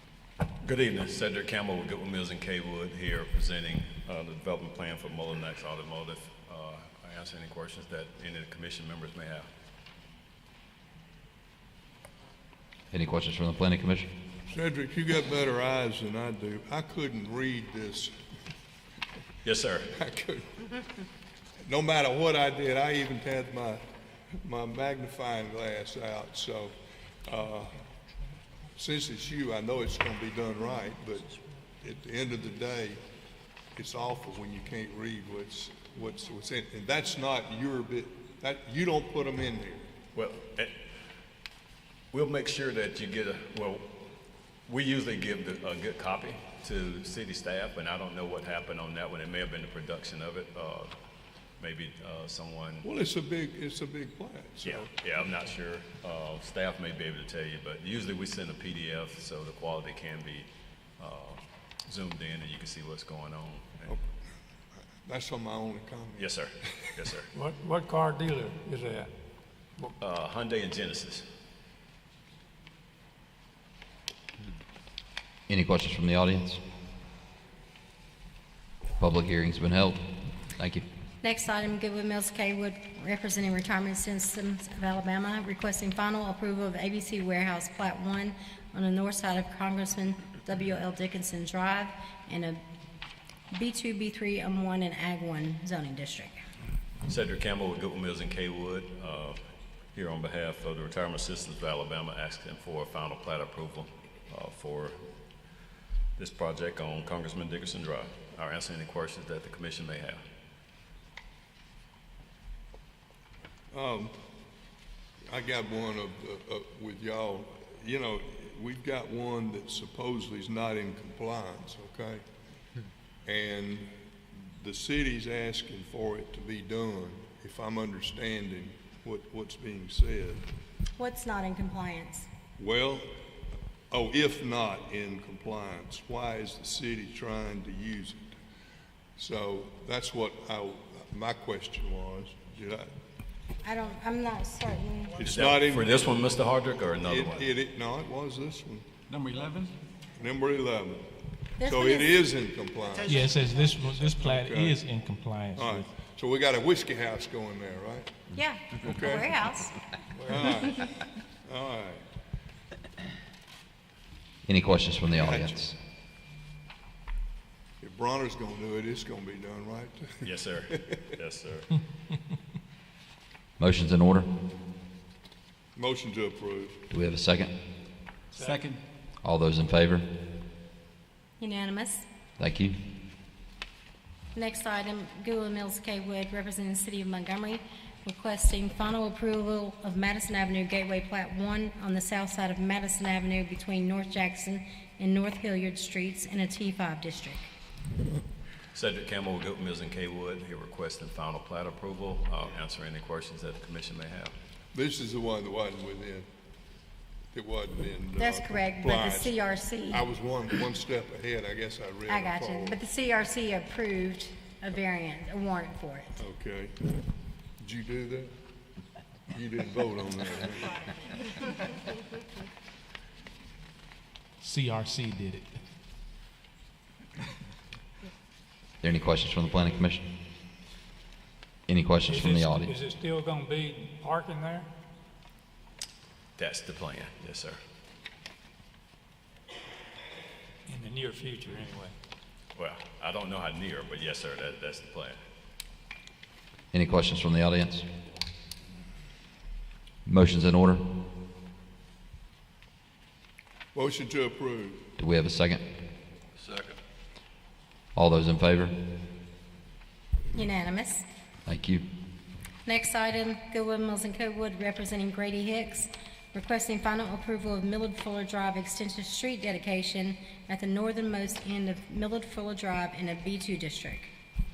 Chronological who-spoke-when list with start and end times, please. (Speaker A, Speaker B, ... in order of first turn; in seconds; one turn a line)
Speaker A: 0.6-9.5
Speaker B: 12.9-14.1
Speaker C: 14.5-18.1
Speaker A: 19.4-19.9
Speaker C: 19.9-20.7
Speaker C: 21.6-23.8
Speaker C: 24.4-26.7
Speaker C: 27.2-27.8
Speaker C: 28.8-33.0
Speaker C: 33.7-39.9
Speaker A: 40.1-40.7
Speaker A: 42.1-43.9
Speaker A: 44.7-50.9
Speaker A: 51.6-52.9
Speaker C: 52.8-54.9
Speaker A: 54.6-60.5
Speaker A: 61.0-63.9
Speaker C: 65.0-66.3
Speaker A: 66.2-67.3
Speaker D: 67.3-69.1
Speaker A: 70.0-71.2
Speaker B: 75.5-76.6
Speaker B: 79.0-80.8
Speaker E: 81.2-92.6
Speaker E: 93.5-96.4
Speaker A: 97.1-99.4
Speaker A: 99.9-105.0
Speaker A: 106.2-110.2
Speaker C: 113.7-114.1
Speaker C: 115.3-122.2
Speaker C: 123.2-123.9
Speaker C: 124.6-130.4
Speaker E: 131.0-132.3
Speaker C: 132.6-133.1
Speaker C: 133.9-138.2
Speaker C: 139.2-142.9
Speaker E: 143.6-145.2
Speaker C: 145.2-146.1
Speaker A: 145.2-147.5
Speaker C: 147.0-148.8
Speaker F: 149.1-149.7
Speaker C: 150.2-151.0
Speaker E: 151.6-152.1
Speaker C: 151.6-153.4
Speaker F: 153.0-154.1
Speaker G: 153.0-155.9
Speaker C: 154.0-154.8
Speaker C: 155.5-158.1
Speaker E: 158.3-159.7
Speaker C: 158.8-159.3
Speaker C: 160.1-162.0
Speaker B: 164.4-165.7
Speaker C: 165.1-165.5
Speaker C: 167.8-171.0
Speaker A: 170.2-171.8
Speaker B: 173.6-174.3
Speaker C: 175.7-176.8
Speaker B: 176.9-177.5
Speaker D: 178.3-178.7
Speaker F: 178.4-178.8
Speaker B: 179.2-180.1
Speaker E: 181.4-182.1
Speaker B: 182.4-182.8
Speaker E: 184.3-197.5
Speaker A: 198.7-204.3
Speaker C: 204.7-206.3
Speaker C: 207.3-209.3
Speaker E: 208.2-210.0
Speaker C: 209.9-212.8
Speaker E: 212.1-216.2
Speaker C: 216.2-217.0
Speaker C: 217.6-218.3
Speaker C: 219.3-220.8
Speaker G: 224.4-225.5
Speaker B: 228.8-230.0
Speaker B: 231.7-232.7
Speaker D: 232.1-234.7
Speaker A: 236.4-237.6
Speaker D: 240.7-241.9
Speaker A: 242.5-245.2
Speaker B: 246.7-247.8
Speaker B: 250.0-250.8
Speaker C: 253.7-254.8
Speaker B: 255.0-255.6
Speaker B: 257.9-258.8
Speaker E: 260.3-261.0
Speaker B: 261.4-261.8
Speaker E: 262.6-274.1